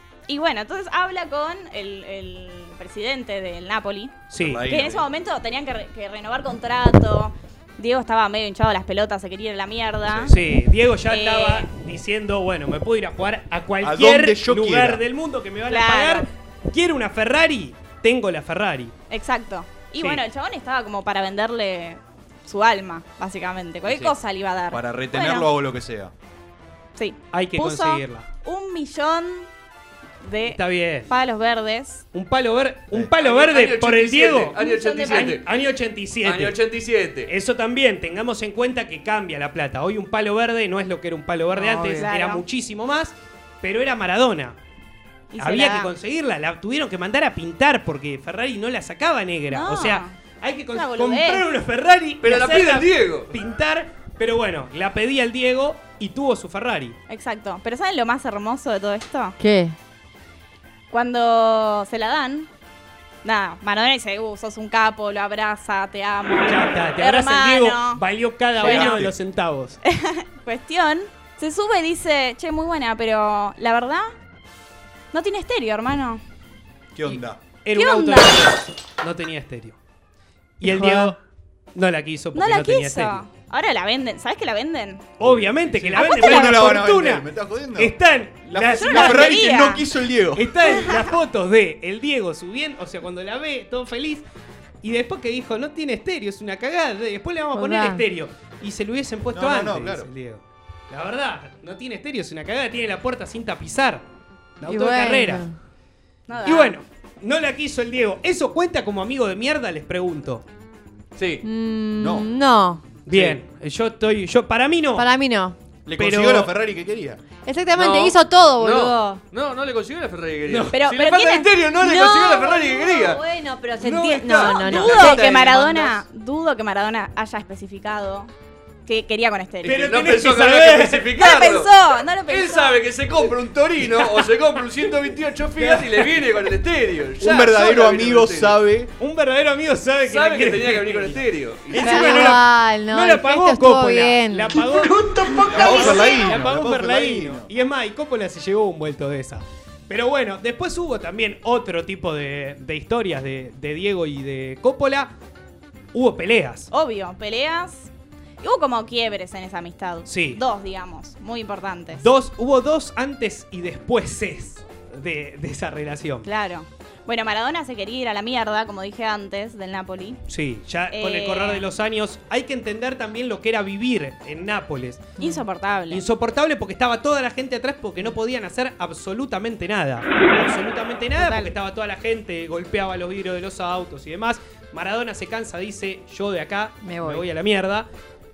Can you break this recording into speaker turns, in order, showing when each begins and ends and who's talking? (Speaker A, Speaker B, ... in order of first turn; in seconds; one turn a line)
Speaker A: 0.3-10.3
Speaker B: 4.3-4.7
Speaker C: 4.4-5.1
Speaker C: 10.1-10.3
Speaker B: 10.2-18.9
Speaker A: 11.1-11.7
Speaker C: 13.8-15.0
Speaker A: 15.7-16.3
Speaker A: 19.1-25.5
Speaker D: 23.9-24.1
Speaker C: 24.7-26.1
Speaker A: 26.9-29.5
Speaker B: 27.3-28.3
Speaker A: 30.2-32.0
Speaker B: 30.4-31.1
Speaker B: 32.1-36.6
Speaker D: 33.2-35.4
Speaker A: 34.6-35.4
Speaker D: 36.2-37.3
Speaker B: 37.3-44.6
Speaker A: 41.6-42.4
Speaker A: 45.3-45.9
Speaker B: 45.4-57.0
Speaker A: 49.5-50.1
Speaker A: 50.7-51.5
Speaker D: 52.2-53.3
Speaker A: 57.1-59.4
Speaker E: 59.4-59.8
Speaker A: 60.9-62.5
Speaker A: 63.2-68.0
Speaker B: 66.4-69.8
Speaker A: 68.6-69.0
Speaker C: 68.6-69.1
Speaker A: 69.8-74.1
Speaker A: 75.1-76.2
Speaker C: 76.9-77.4
Speaker B: 77.1-79.8
Speaker A: 77.7-78.5
Speaker B: 80.6-81.2
Speaker E: 80.8-81.1
Speaker B: 81.7-83.3
Speaker A: 82.3-85.1
Speaker B: 85.2-89.5
Speaker C: 85.2-88.0
Speaker A: 85.9-86.7
Speaker C: 88.5-90.5
Speaker A: 88.8-89.9
Speaker B: 90.4-94.2
Speaker A: 90.7-91.1
Speaker B: 94.8-104.0
Speaker E: 97.5-98.1
Speaker C: 99.3-100.1
Speaker B: 104.6-105.5
Speaker E: 104.6-105.5
Speaker A: 106.3-106.8
Speaker B: 106.4-110.4
Speaker D: 111.2-111.4
Speaker E: 111.4-112.8
Speaker C: 112.0-112.3
Speaker B: 113.1-115.1
Speaker D: 113.1-113.4
Speaker E: 115.0-115.6
Speaker C: 115.9-117.2
Speaker B: 116.0-116.5
Speaker E: 117.4-119.2
Speaker D: 117.7-123.2
Speaker B: 120.5-120.8
Speaker A: 120.7-123.0
Speaker E: 123.0-125.3
Speaker D: 123.8-126.0
Speaker A: 124.3-128.3
Speaker A: 128.9-129.9
Speaker B: 129.6-131.1
Speaker D: 129.6-138.6
Speaker A: 131.2-132.8
Speaker B: 135.6-136.1
Speaker C: 137.2-138.9
Speaker B: 139.0-155.1
Speaker D: 140.1-142.3
Speaker E: 141.8-144.7
Speaker A: 141.8-142.2
Speaker C: 145.4-147.5
Speaker A: 145.6-146.1
Speaker B: 155.9-156.7
Speaker A: 156.7-162.1
Speaker B: 160.1-160.4
Speaker B: 162.0-166.3
Speaker A: 166.2-170.2
Speaker B: 170.3-175.2
Speaker A: 170.9-171.7
Speaker A: 175.2-176.0
Speaker B: 175.9-187.9
Speaker A: 181.2-181.5
Speaker E: 186.8-187.3